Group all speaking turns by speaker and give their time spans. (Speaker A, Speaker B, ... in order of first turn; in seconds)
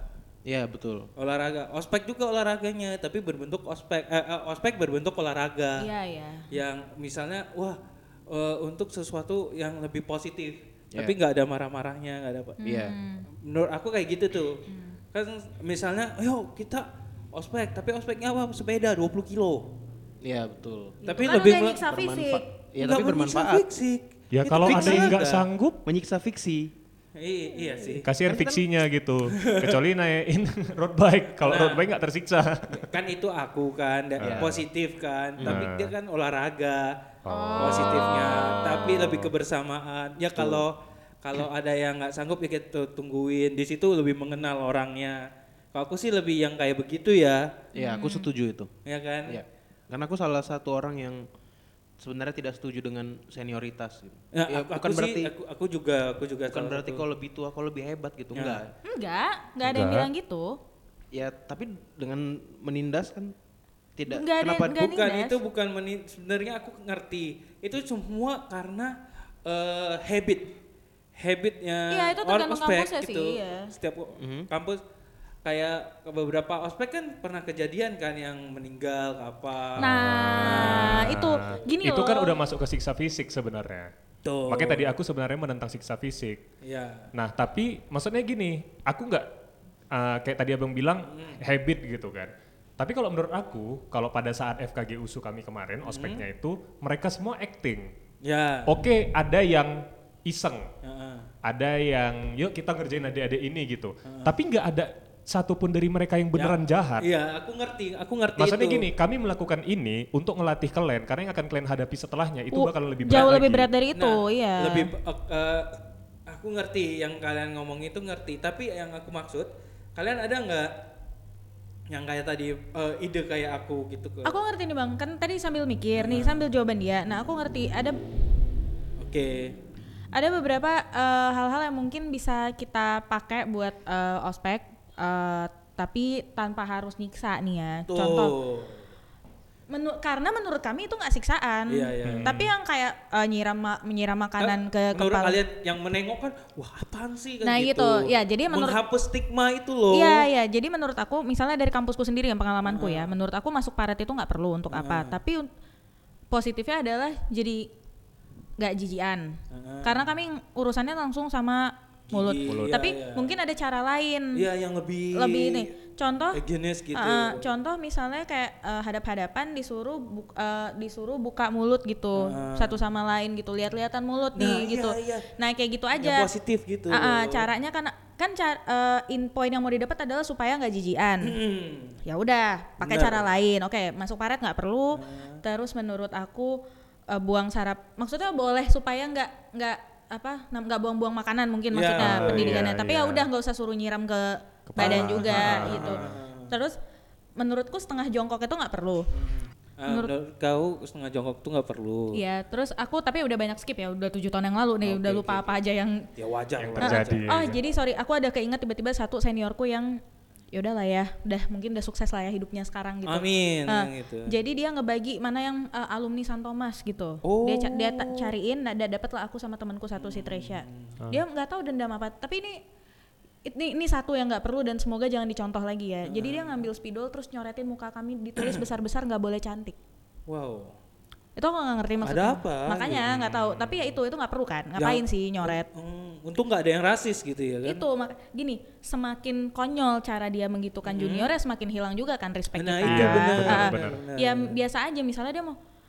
Speaker A: 0.5-1.1, 12.6-12.9, 20.2-23.6, 24.6-25.2, 25.8-26.7, 28.2-28.6, 34.2-34.6, 35.4-35.7, 40.4-40.6, 47.7-48.7, 49.3-51.2, 52.0-55.3, 56.5-58.7, 61.1-63.3, 64.0-64.8, 74.2-74.5
Speaker B: 1.2-5.9, 6.5-12.6, 13.4-19.7, 21.0-21.8, 22.8-25.4, 27.1-28.1, 29.3-29.8, 31.4-31.8, 32.7-36.9, 37.6-47.5, 48.9-49.4, 54.3-57.0, 58.3-58.6, 64.8-70.5, 71.2-74.8, 75.4-81.2, 84.2-84.9, 86.6-87.1, 91.0-91.4, 95.8-96.2, 98.2-98.8, 100.8-101.3, 104.0-104.3, 106.3-108.9, 113.1-113.4, 113.9-120.7, 121.9-124.3, 126.0-126.5, 129.0-129.6, 137.9-138.8, 141.7-142.4, 144.4-150.2, 152.6-153.1, 154.7-155.2, 159.5-160.1, 162.1-163.3, 164.3-165.7, 166.3-167.5, 172.2-172.8, 174.3-175.3, 176.0-177.5, 181.2-182.0, 182.8-183.3, 184.9-185.4, 191.7-192.7, 194.8-196.5, 199.1-202.2, 204.8-205.6, 206.2-207.3, 213.1-214.3, 217.2-218.3, 220.0-221.0, 226.1-226.7, 228.4-228.6, 230.3-230.8, 232.0-233.2, 234.8-237.8, 240.8-241.3, 242.6-244.5
Speaker C: 5.8-6.5, 12.6-13.3, 14.7-14.9, 21.0-22.5, 37.3-38.9, 47.7-48.3, 58.9-60.6, 64.1-65.4, 71.9-73.7, 79.8-82.4, 112.5-114.9, 124.2-128.0, 130.1-138.3, 139.7-145.4, 147.4-148.8, 149.9-155.5, 156.3-157.7, 158.6-164.4, 165.1-166.4, 166.9-176.3, 176.9-181.4, 182.0-196.8, 197.4-199.1, 202.1-206.1, 206.8-210.0, 210.5-222.6, 223.4-229.8, 231.3-235.7, 237.6-245.6
Speaker D: 24.3-25.8, 28.0-32.8, 34.2-34.5, 35.4-35.9, 37.2-38.0, 38.9-39.3, 59.6-60.1, 79.8-83.9, 84.5-86.4, 87.1-89.3, 89.9-97.9, 98.7-100.7, 101.4-107.1, 108.4-113.7, 142.0-142.5, 162.5-162.7, 192.0-193.3, 194.7-196.2, 206.6-207.6, 232.9-233.8, 242.8-244.0